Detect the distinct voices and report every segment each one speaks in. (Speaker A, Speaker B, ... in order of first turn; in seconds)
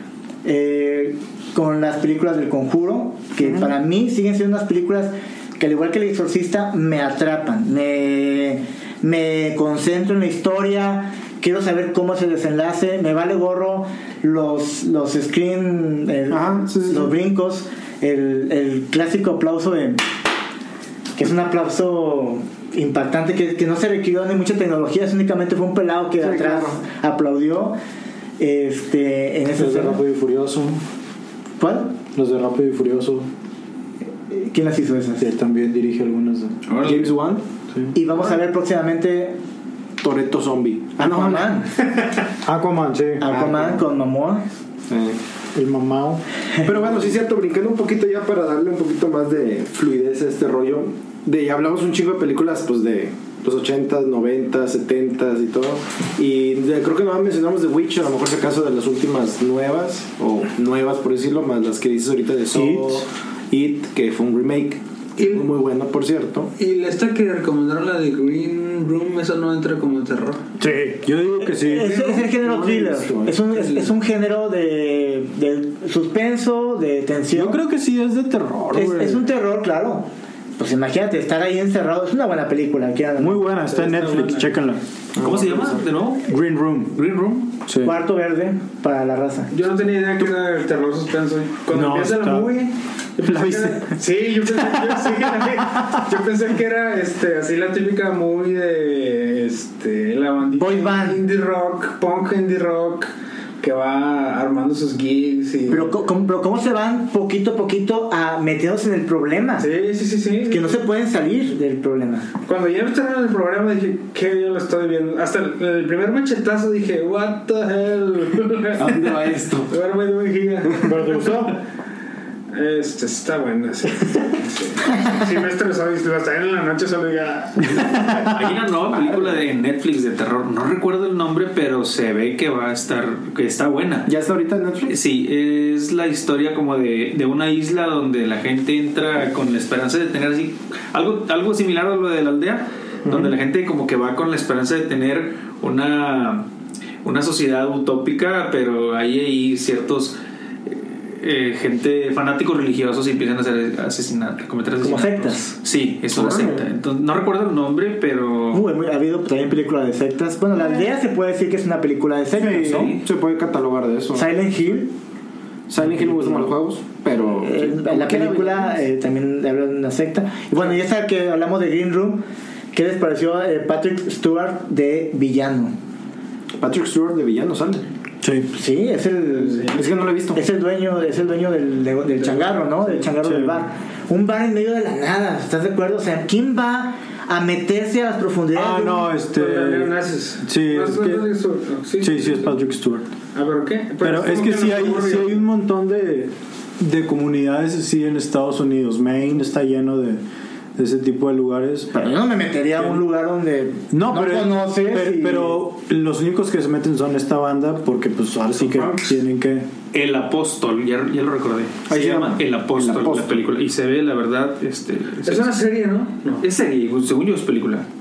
Speaker A: 0.4-20.0, 21.1-27.8, 28.4-30.0, 31.6-31.9, 34.3-35.3, 37.9-39.4, 41.0-41.8, 43.2-44.5, 71.4-77.6, 78.7-83.5, 87.8-89.5, 100.5-101.2, 105.7-109.7, 110.5-112.3, 154.8-155.5, 158.5-163.0, 164.1-164.9, 167.4-175.7, 178.5-179.8, 180.3-189.1, 201.9-205.6
Speaker B: 16.3-17.1, 26.2-26.8, 36.8-37.4, 40.0-41.6, 43.3-43.8, 44.9-45.2, 46.6-66.5, 71.8-73.4, 85.2-85.8, 118.8-119.7, 134.1-134.9, 143.1-143.3, 156.1-156.6, 162.4-164.3, 165.7-168.8, 176.6-177.8, 179.7-180.4, 211.9-213.4
Speaker C: 29.5-30.8, 32.1-33.3, 35.2-36.6, 42.4-43.2, 45.5-46.2, 62.5-63.0, 70.6-72.0, 77.3-79.2, 83.2-84.8, 86.3-87.0, 87.7-87.9, 91.7-92.5, 93.2-94.0, 94.8-95.0, 120.8-121.6, 162.4-162.9, 178.2-178.5, 183.2-183.6, 188.5-189.9, 190.4-191.2, 192.0-193.1, 194.0-200.2, 200.8-201.9, 203.9-209.7
Speaker D: 36.7-37.1, 85.2-86.3, 86.9-87.5, 128.2-134.1, 134.8-146.4, 147.0-150.2, 150.7-158.7, 162.5-163.0, 209.9-215.6, 216.4-217.8
Speaker E: 66.6-70.4, 83.7-84.5, 89.5-105.9, 109.6-110.8, 112.4-121.5, 122.5-128.2, 179.4-179.9, 189.3-192.6, 193.3-195.4, 215.2-216.4